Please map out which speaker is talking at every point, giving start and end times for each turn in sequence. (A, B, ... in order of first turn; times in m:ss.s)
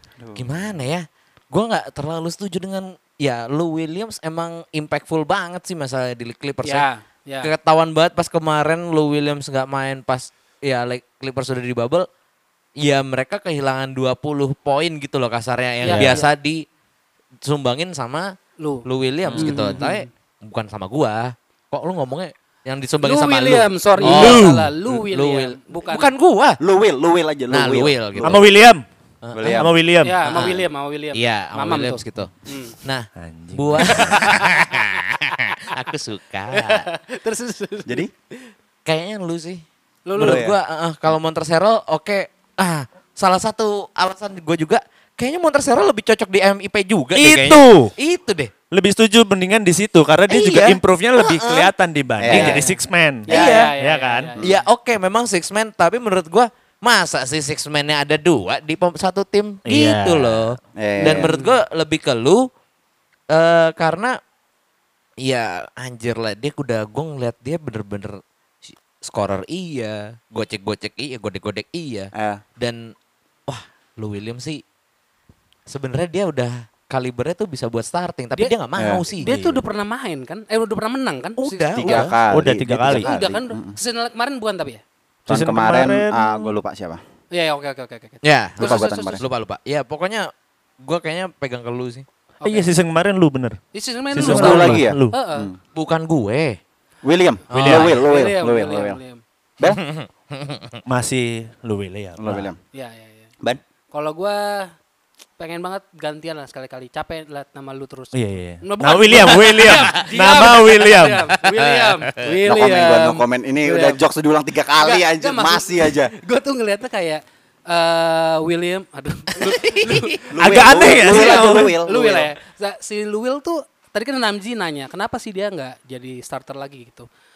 0:00.2-0:00.5 A
0:00.4-0:06.8 B
0:06.6-0:07.5 C
0:07.4-0:12.1 B
0:12.8-0:16.6 B
0:15.8-0:16.3 C
0:17.4-0:18.3 B
0:18.6-0:20.1 C
0:18.8-0:26.6 B
0:19.3-0:19.7 D
0:23.0-0:26.1 C
0:24.0-0:24.7 D
0:26.6-0:28.4 A
0:27.5-0:28.5 B
0:28.2-0:28.8 D
0:29.2-0:29.7 B
0:29.4-0:29.7 A
0:29.4-0:30.2 D
0:30.0-0:32.8 C
0:30.3-0:32.3 B
0:32.8-0:36.9 B
0:33.2-0:34.4 D
0:34.0-0:34.9 C
0:36.5-0:38.0 C
0:38.9-0:39.6 B
0:40.1-0:40.4 C
0:40.2-0:48.5 B
0:40.2-0:40.6 A
0:47.1-0:47.9 D
0:48.7-0:54.3 D
0:50.3-0:51.7 B
0:52.2-0:52.6 A
0:52.3-0:52.6 B
0:52.3-0:54.5 C
0:53.3-0:53.6 A
0:53.3-0:53.8 B
0:54.4-1:02.5 B
0:59.7-1:00.6 D
1:00.8-1:01.4 A
1:01.1-1:01.6 C
1:03.3-1:04.2 B
1:05.2-1:12.9 B
1:12.2-1:12.4 A
1:13.5-1:14.6 B
1:15.7-1:19.3 B
1:18.8-1:19.6 A
1:19.2-1:22.1 C
1:21.4-1:22.2 B
1:21.8-1:23.8 A
1:22.3-1:23.1 D
1:22.9-1:24.8 C
1:25.3-1:26.5 D
1:25.3-1:27.0 A
1:27.3-1:29.2 C
1:28.2-1:32.0 B
1:28.6-1:29.2 A
1:32.4-1:32.7 C
1:32.5-1:33.6 D
1:33.7-1:35.5 C
1:34.1-1:35.2 D
1:34.2-1:35.6 A
1:35.8-1:36.6 B
1:37.0-1:39.0 A
1:37.5-1:38.0 B
1:37.5-1:39.2 C
1:39.6-1:40.8 B
1:40.9-1:42.5 D
1:42.2-1:42.6 A
1:42.7-1:43.3 C
1:43.9-1:44.7 C
1:45.4-1:54.0 C
1:48.1-1:51.3 D
1:49.2-1:49.8 B
1:51.5-1:52.1 B
1:52.4-1:56.1 A
1:54.8-2:07.1 C
1:59.4-2:00.2 B
2:00.3-2:02.3 A
2:00.4-2:01.7 D